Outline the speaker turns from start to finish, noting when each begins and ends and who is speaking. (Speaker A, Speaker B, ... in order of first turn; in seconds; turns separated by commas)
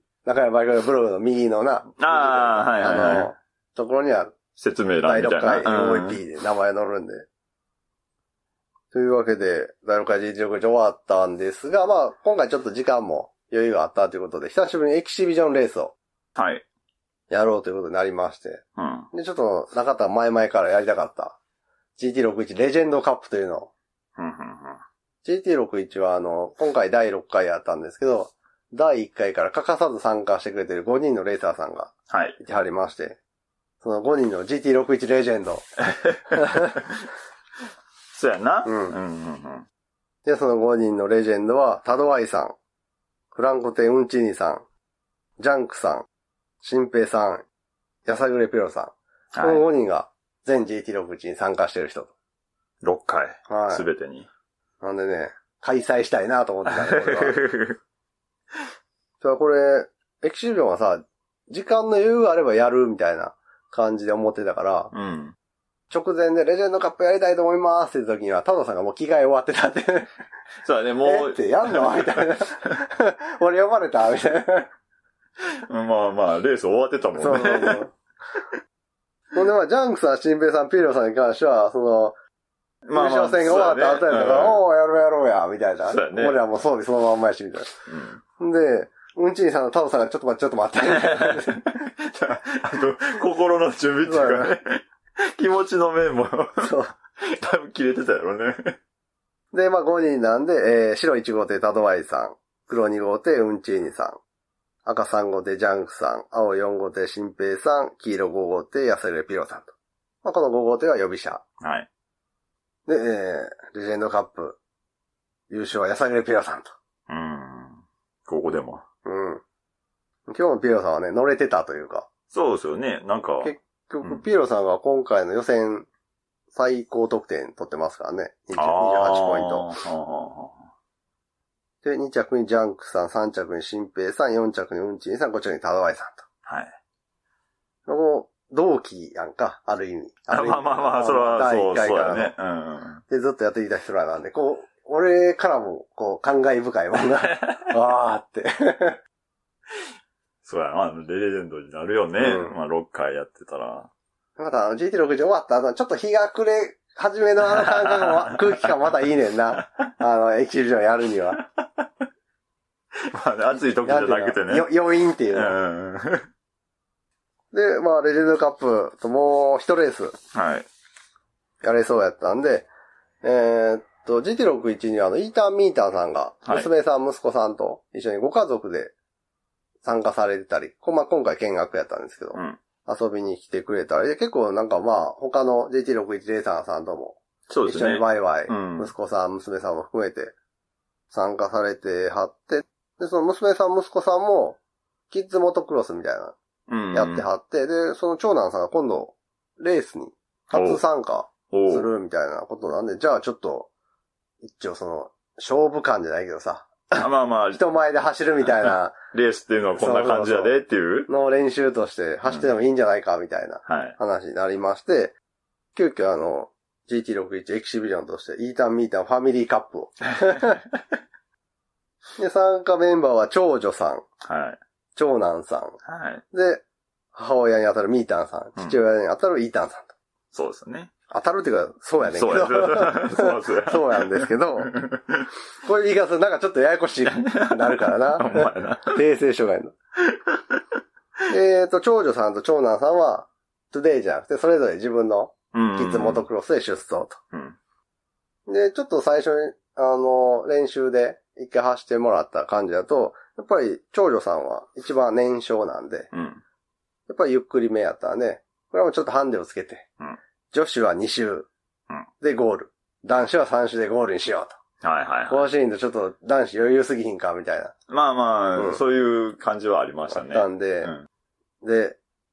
Speaker A: 0.2-4.3, Speaker B: 2.0-3.3, Speaker B: 4.6-6.2, Speaker A: 5.0-7.2, Speaker A: 8.9-15.9, Speaker B: 16.4-16.6, Speaker A: 17.3-21.4, Speaker B: 18.8-19.1, Speaker A: 22.0-23.7, Speaker B: 24.2-24.8, Speaker A: 25.2-33.2, Speaker B: 32.1-32.4, Speaker A: 33.8-35.6, Speaker B: 35.8-37.0, Speaker A: 36.4-36.7, Speaker B: 38.1-39.6, Speaker A: 38.6-39.0, Speaker A: 40.2-42.5, Speaker A: 43.3-44.6, Speaker A: 45.4-46.0, Speaker A: 46.6-47.4, Speaker A: 48.0-52.1, Speaker B: 49.3-49.6, Speaker B: 52.8-54.3, Speaker A: 53.5-53.9, Speaker A: 54.8-57.4, Speaker B: 56.7-57.8, Speaker A: 59.2-64.9, Speaker B: 64.9-65.3, Speaker A: 65.9-70.1, Speaker B: 70.6-72.3, Speaker A: 71.0-74.7, Speaker B: 75.7-77.8, Speaker A: 77.2-77.9, Speaker A: 79.3-82.2, Speaker B: 82.8-84.6, Speaker A: 82.9-87.7, Speaker B: 85.9-86.4, Speaker B: 87.9-88.2, Speaker A: 88.4-91.8, Speaker B: 90.9-98.8, Speaker A: 94.0-94.5, Speaker A: 96.6-96.9, Speaker A: 99.5-104.2, Speaker A: 104.8-111.4, Speaker B: 111.6-111.9, Speaker A: 112.9-114.6, Speaker A: 115.5-116.7, Speaker B: 117.1-118.8, Speaker A: 119.0-119.4, Speaker A: 120.3-122.1, Speaker B: 122.3-124.2, Speaker A: 123.4-125.9, Speaker A: 126.5-129.7, Speaker B: 128.6-130.6, Speaker A: 131.8-136.2, Speaker B: 136.4-136.7, Speaker A: 137.9-142.3, Speaker B: 140.3-143.0, Speaker A: 143.1-149.0, Speaker B: 147.2-147.6, Speaker B: 150.4-153.9, Speaker A: 152.2-152.5, Speaker A: 154.4-161.4, Speaker B: 157.4-158.7, Speaker B: 159.6-159.8, Speaker B: 161.4-161.9, Speaker B: 163.0-164.7, Speaker A: 163.8-165.6, Speaker B: 165.3-166.2, Speaker A: 167.5-170.2, Speaker B: 170.3-170.7, Speaker A: 171.6-172.7, Speaker A: 173.2-178.9, Speaker A: 179.8-190.3, Speaker B: 182.3-182.6, Speaker B: 187.5-188.9, Speaker A: 191.1-194.6, Speaker A: 195.1-196.3, Speaker B: 196.7-197.3, Speaker A: 196.9-203.7, Speaker B: 200.5-200.8, Speaker B: 201.5-201.9, Speaker A: 204.4-208.9, Speaker B: 207.0-207.6, Speaker B: 208.6-211.1, Speaker A: 209.8-210.5, Speaker A: 211.1-215.1, Speaker B: 213.7-213.9, Speaker A: 215.7-220.6, Speaker A: 222.2-224.0, Speaker B: 224.2-224.6, Speaker A: 224.9-225.8, Speaker B: 225.8-226.2, Speaker A: 226.3-226.6, Speaker A: 227.1-229.9, Speaker B: 230.3-230.9, Speaker A: 231.1-234.8, Speaker B: 232.0-235.3, Speaker A: 235.6-239.7, Speaker B: 237.1-239.0, Speaker B: 240.0-240.6, Speaker A: 241.3-247.2, Speaker B: 245.5-246.3, Speaker B: 247.3-247.6, Speaker A: 248.5-256.1, Speaker B: 256.1-256.4, Speaker A: 257.1-259.9, Speaker A: 260.5-261.5, Speaker A: 262.2-264.6, Speaker B: 264.8-265.4, Speaker A: 265.3-267.7, Speaker B: 267.9-271.1, Speaker A: 268.6-268.8, Speaker A: 270.1-270.9, Speaker A: 271.6-272.0